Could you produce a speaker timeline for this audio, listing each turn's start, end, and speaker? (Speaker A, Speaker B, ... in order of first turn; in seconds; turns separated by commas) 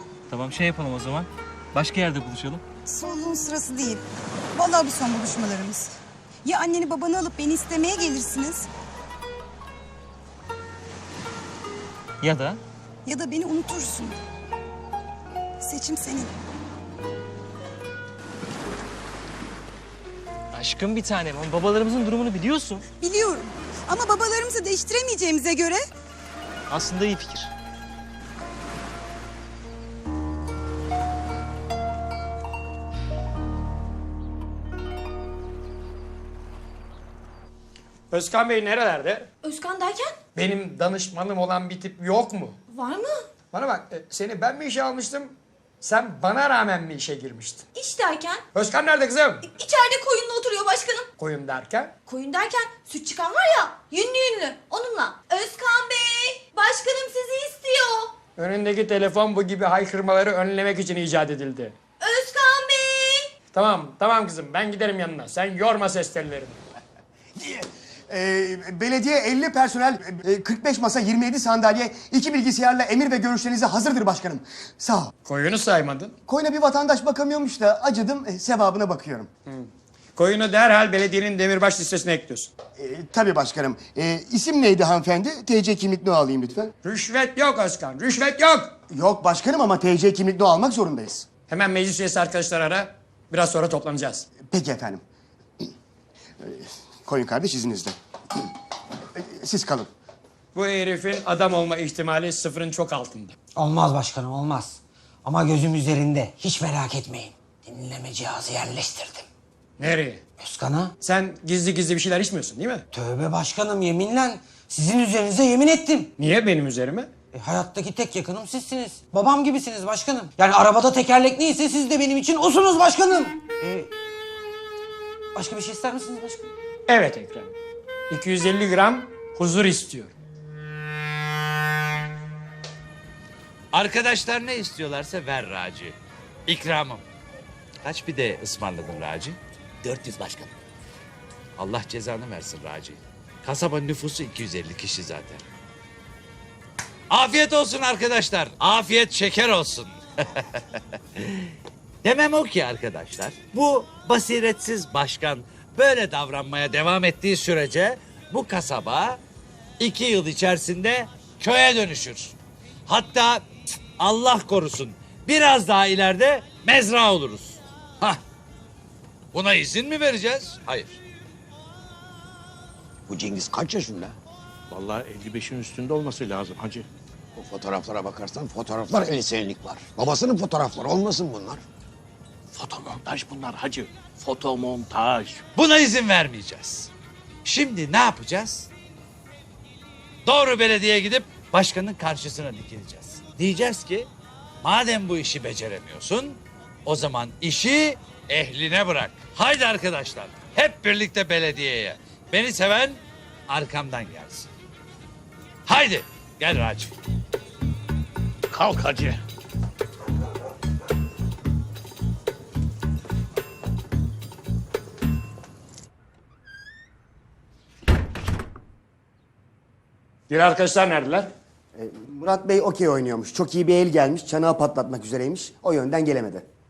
Speaker A: 0.3-2.6, Speaker B: 2.9-5.9, Speaker B: 6.5-8.7, Speaker A: 12.2-12.6, Speaker B: 13.1-14.2, Speaker B: 15.6-16.3, Speaker A: 20.5-22.8, Speaker B: 23.0-25.9, Speaker A: 26.7-27.5, Speaker C: 38.1-39.3, Speaker D: 39.4-40.2, Speaker C: 40.4-42.6, Speaker D: 42.7-43.2, Speaker C: 43.5-47.6, Speaker D: 47.7-48.4, Speaker C: 48.5-49.4, Speaker D: 49.4-51.1, Speaker C: 51.2-52.0, Speaker D: 52.1-58.1, Speaker C: 58.4-61.8, Speaker D: 62.0-63.3, Speaker C: 63.5-66.6, Speaker E: 67.4-75.1, Speaker C: 75.2-76.1, Speaker E: 76.3-79.3, Speaker C: 79.5-82.5, Speaker E: 82.8-86.7, Speaker C: 86.8-88.8, Speaker E: 88.9-91.3, Speaker C: 91.5-94.3, Speaker E: 94.5-95.0, Speaker E: 96.4-98.0, Speaker E: 99.2-99.9, Speaker C: 100.5-103.4, Speaker F: 103.6-109.3, Speaker C: 109.8-110.2, Speaker F: 110.4-111.0, Speaker C: 111.0-112.8, Speaker F: 112.9-116.1, Speaker C: 116.2-117.1, Speaker F: 117.3-123.9, Speaker F: 125.3-126.5, Speaker C: 126.9-127.5, Speaker C: 128.1-130.1, Speaker G: 133.7-137.0, Speaker G: 137.8-140.5, Speaker G: 141.6-145.4, Speaker G: 147.1-150.4, Speaker G: 151.2-151.5, Speaker G: 152.0-159.2, Speaker G: 159.8-162.3, Speaker G: 162.9-168.2, Speaker G: 169.3-171.0, Speaker H: 173.1-174.1, Speaker I: 174.7-176.8, Speaker H: 177.4-181.6, Speaker I: 182.6-185.4, Speaker G: 185.6-186.9, Speaker G: 187.4-188.7, Speaker G: 190.3-194.1, Speaker G: 194.6-204.5, Speaker G: 205.7-206.9, Speaker I: 208.5-209.2, Speaker C: 220.3-221.3, Speaker E: 221.8-226.4